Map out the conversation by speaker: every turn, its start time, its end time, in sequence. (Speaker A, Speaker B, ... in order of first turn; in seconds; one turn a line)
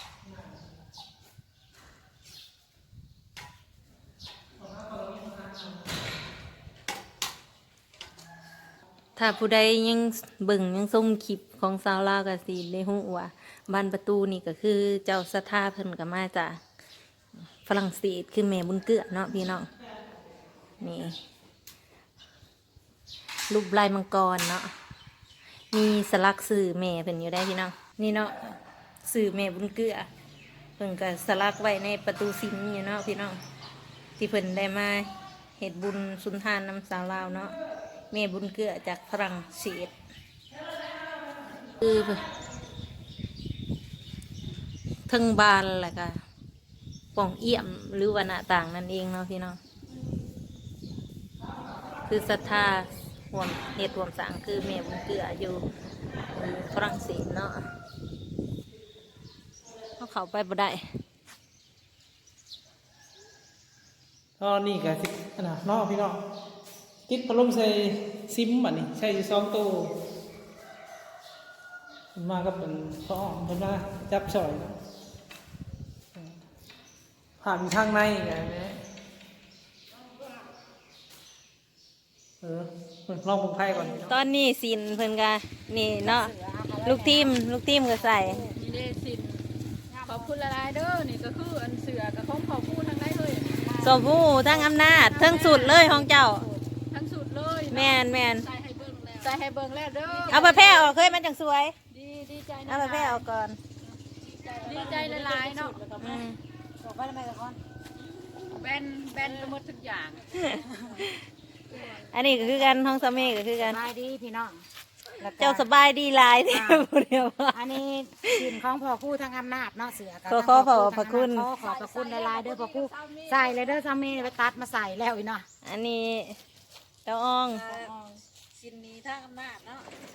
Speaker A: 4.7-5.5
Speaker B: 9.2-16.6
Speaker B: 17.7-19.7
Speaker B: 20.8-21.1
Speaker B: 23.5-24.7
Speaker B: 25.7-28.5
Speaker B: 29.1-30.1
Speaker B: 30.8-33.4
Speaker B: 34.2-37.5
Speaker B: 38.1-39.9
Speaker B: 41.8-42.2
Speaker B: 45.1-46.2
Speaker B: 47.1-49.6
Speaker B: 52.1-55.6
Speaker B: 56.3-57.6
Speaker B: 60.0-60.9
Speaker A: 64.4-66.2
Speaker A: 67.1-69.9
Speaker A: 72.2-74.8
Speaker A: 77.4-78.8
Speaker A: 82.4-84.1
Speaker B: 83.9-86.3
Speaker C: 86.0-88.6
Speaker B: 86.8-88.5
Speaker D: 88.6-93.9
Speaker B: 93.8-96.5
Speaker D: 94.5-101.0
Speaker B: 97.7-98.5
Speaker B: 100.3-101.8
Speaker D: 101.9-103.2
Speaker B: 102.7-103.6
Speaker D: 104.3-106.1
Speaker B: 106.0-106.4
Speaker C: 106.8-107.6
Speaker D: 108.5-110.8
Speaker B: 110.4-111.1
Speaker B: 112.1-113.8
Speaker C: 113.6-114.6
Speaker C: 115.2-115.7
Speaker B: 115.4-117.5
Speaker C: 116.5-116.9
Speaker C: 117.5-125.5
Speaker B: 120.3-121.5
Speaker D: 121.5-123.8
Speaker B: 125.7-126.4
Speaker B: 127.1-127.9
Speaker D: 127.5-129.8